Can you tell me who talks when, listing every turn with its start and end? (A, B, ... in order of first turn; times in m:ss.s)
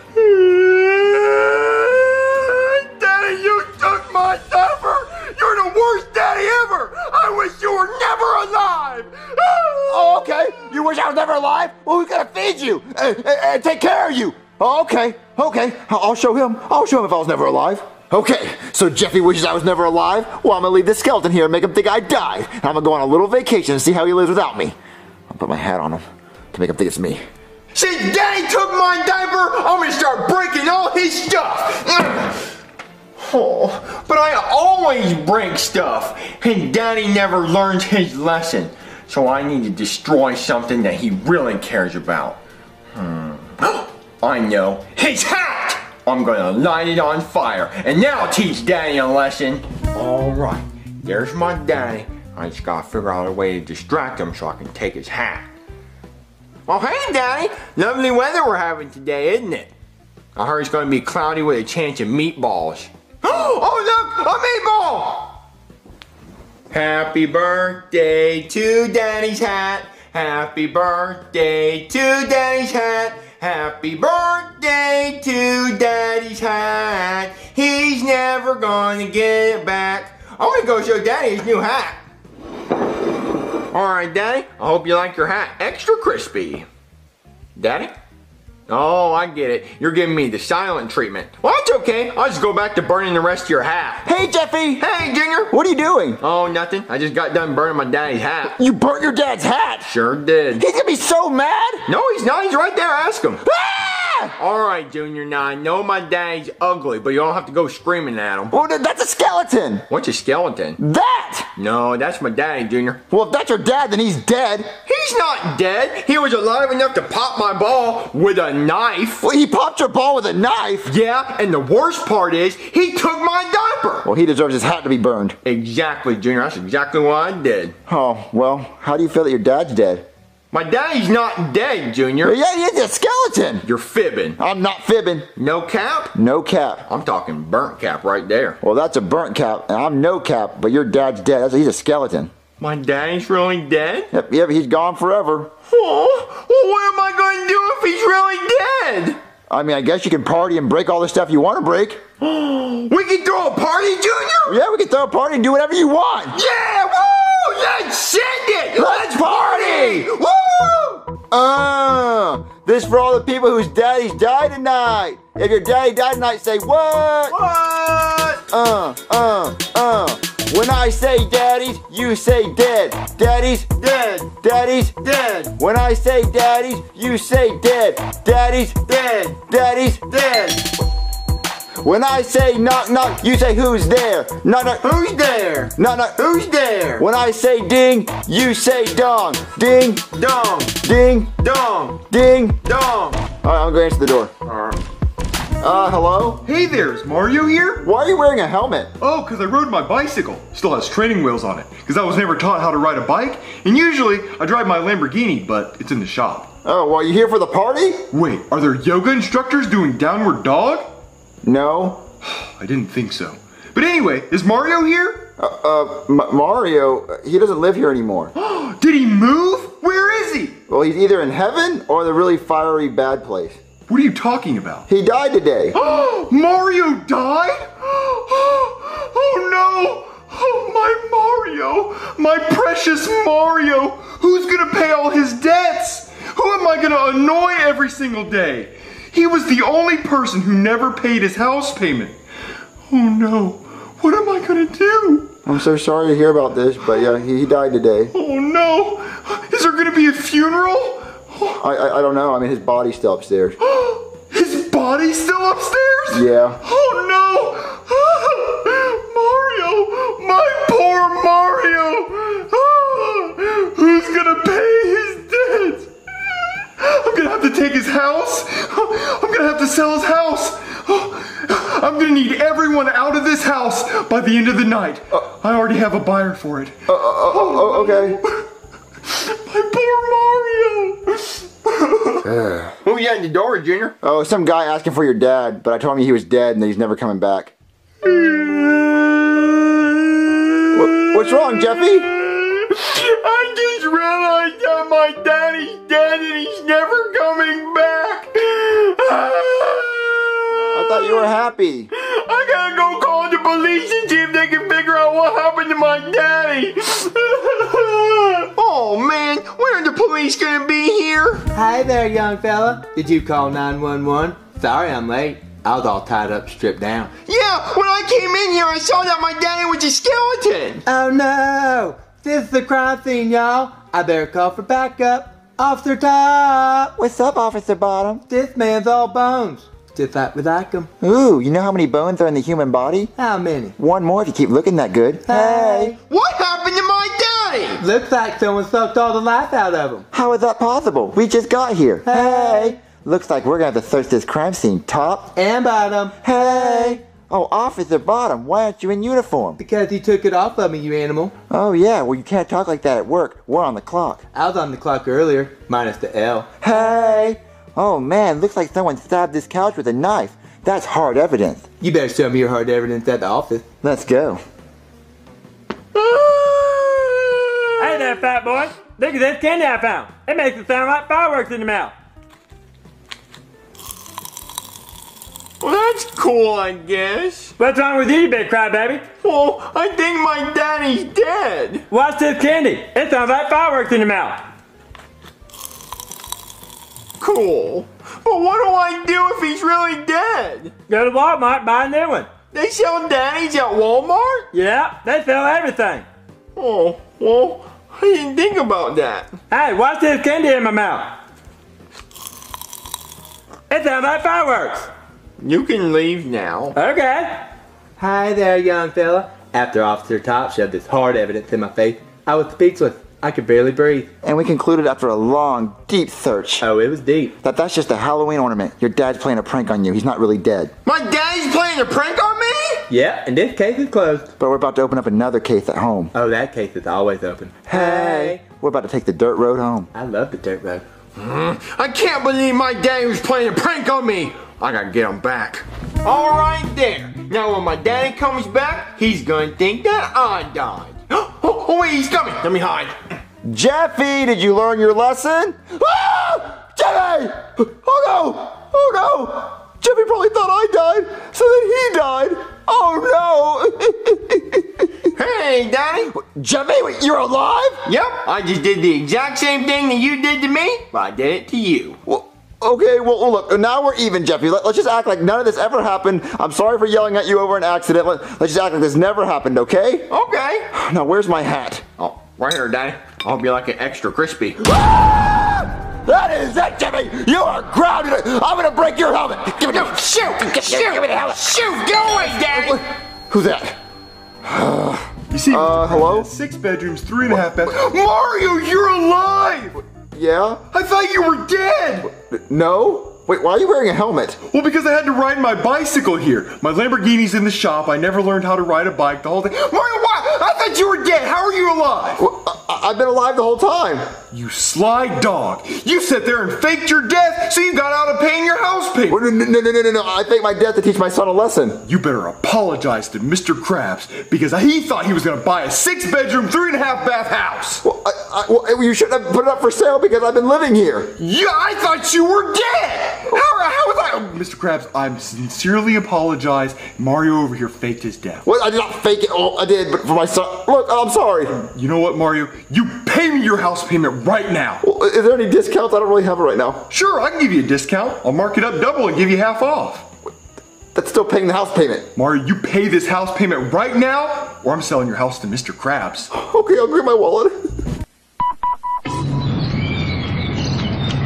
0:00.2-0:10.5 A
0:09.9-0:24.8 B
0:25.3-0:27.2 B
0:27.7-0:32.5 A
0:33.2-0:42.4 A
0:42.9-0:55.5 A
0:56.7-0:59.7 A
1:00.4-1:05.4 A
1:06.7-1:22.0 A
1:23.7-1:26.7 A
1:27.6-1:27.9 A
1:28.7-1:34.1 A
1:34.0-1:34.9 B
1:34.8-1:35.5 A
1:35.5-1:36.2 B
1:36.2-1:38.6 A
1:38.5-1:39.9 B
1:39.8-1:40.7 A
1:40.6-1:41.9 B
1:41.9-1:43.5 A
1:43.4-1:44.3 B
1:44.4-1:48.6 A
1:48.5-1:49.9 B
1:49.9-1:50.8 A
1:50.8-1:51.5 B
1:51.6-1:53.0 A
1:53.1-1:54.7 B
1:54.9-1:59.2 A
1:59.2-2:00.9 B
2:00.8-2:04.1 A
2:04.0-2:05.4 B
2:05.4-2:07.7 A
2:07.9-2:10.1 B
2:10.5-2:12.4 A
2:12.2-2:13.7 B
2:13.6-2:14.4 A
2:14.4-2:15.3 B
2:15.4-2:16.2 A
2:16.1-2:16.9 B
2:16.9-2:18.6 A
2:18.6-2:22.3 B
2:22.6-2:24.1 A
2:24.1-2:25.5 B
2:25.7-2:29.2 A
2:29.5-2:32.0 B
2:32.2-2:34.6 A
2:34.5-2:36.4 B
2:36.3-2:41.1 A
2:38.8-2:40.1 B
2:41.3-2:47.4 B
2:47.3-2:48.4 A
2:48.5-2:53.7 B
2:53.8-2:54.3 A
2:54.3-2:55.0 B
2:55.0-2:55.5 A
2:55.6-2:58.9 B
2:58.9-2:59.4 A
2:59.4-3:00.1 B
3:00.1-3:00.7 A
3:01.8-3:04.9 B
3:04.8-3:07.1 A
3:05.8-3:06.2 B
3:07.0-3:10.0 B
3:10.2-3:10.8 A
3:10.8-3:11.4 B
3:11.4-3:12.0 A
3:12.0-3:12.6 B
3:12.6-3:13.3 A
3:13.4-3:14.3 B
3:15.6-3:16.4 B
3:16.4-3:17.9 C
3:17.8-3:18.9 B
3:19.0-3:26.5 C
3:26.6-3:28.1 B
3:28.1-3:30.9 C
3:31.4-3:32.0 B
3:32.2-3:35.3 C
3:35.4-3:38.3 B
3:38.4-3:40.6 C
3:40.7-3:43.6 B
3:43.9-3:44.9 C
3:44.9-3:45.8 B
3:45.7-4:02.2 C
4:02.9-4:05.4 C
4:05.5-4:08.1 B
4:08.1-4:11.6 C
4:11.6-4:13.6 B
4:13.6-4:25.9 C
4:16.1-4:16.6 B
4:26.6-4:38.4 C
4:36.9-4:38.2 B
4:39.0-4:42.2 C
4:42.3-4:42.7 B
4:42.8-4:43.9 A
4:44.0-4:47.5 B
4:48.0-5:01.3 A
4:50.7-4:52.1 B
5:00.7-5:01.9 B
5:01.9-5:11.5 A
5:11.5-5:17.1 D
5:17.3-5:20.8 A
5:20.8-5:27.0 D
5:27.0-5:28.2 B
5:28.3-5:30.9 D
5:31.0-5:33.1 B
5:33.2-5:33.8 D
5:33.8-5:36.0 B
5:35.2-5:36.0 D
5:36.1-5:37.8 A
5:37.8-5:40.1 D
5:40.1-5:45.4 B
5:42.0-5:42.8 D
5:45.4-5:47.0 D
5:46.2-5:49.6 B
5:49.6-5:51.3 D
5:51.5-5:54.2 B
5:54.3-5:56.5 D
5:56.6-6:01.7 B
6:01.8-6:03.6 D
6:03.8-6:04.4 B
6:05.9-6:08.2 A
6:07.8-6:11.9 E
6:15.6-6:17.5 A
6:17.6-6:19.1 E
6:19.2-6:21.8 A
6:21.9-6:24.4 E
6:27.2-6:30.8 A
6:30.9-6:32.3 E
6:32.5-6:34.5 A
6:34.5-6:36.1 E
6:36.6-6:39.3 A
6:39.5-6:41.1 E
6:43.7-6:44.9 E
6:45.4-6:46.8 A
6:46.8-6:47.5 E
6:48.0-6:54.1 D
6:54.2-6:56.7 B
6:56.6-6:57.4 D
6:57.4-7:00.7 B
7:00.8-7:02.8 A
7:02.9-7:04.3 D
7:04.4-7:06.1 B
7:06.1-7:08.4 D
7:07.7-7:09.9 B
7:09.9-7:10.8 D
7:11.2-7:23.0 A
7:23.4-7:35.1 B
7:35.1-7:36.1 A
7:36.1-7:37.8 B
7:37.8-7:42.0 A
7:42.1-7:50.1 B
7:50.1-7:50.7 A
7:50.7-7:51.9 B
7:52.0-7:54.6 A
7:54.6-8:03.8 B
7:59.7-8:02.8 A
8:04.4-8:06.3 B
8:05.3-8:09.8 C
8:10.1-8:10.6 B
8:10.7-8:12.1 C
8:12.1-8:14.4 B
8:14.5-8:22.2 C
8:22.2-8:24.2 B
8:24.3-8:29.2 C
8:29.1-8:31.8 B
8:31.8-8:37.8 C
8:37.8-8:41.1 B
8:41.3-8:42.4 C
8:41.3-8:44.3 A
8:43.1-8:48.4 C
8:48.4-8:51.6 B
8:51.6-8:54.8 C
8:54.8-8:56.9 B
8:56.9-9:00.1 C
9:00.9-9:02.1 B
9:02.2-9:06.3 C
9:06.3-9:07.6 B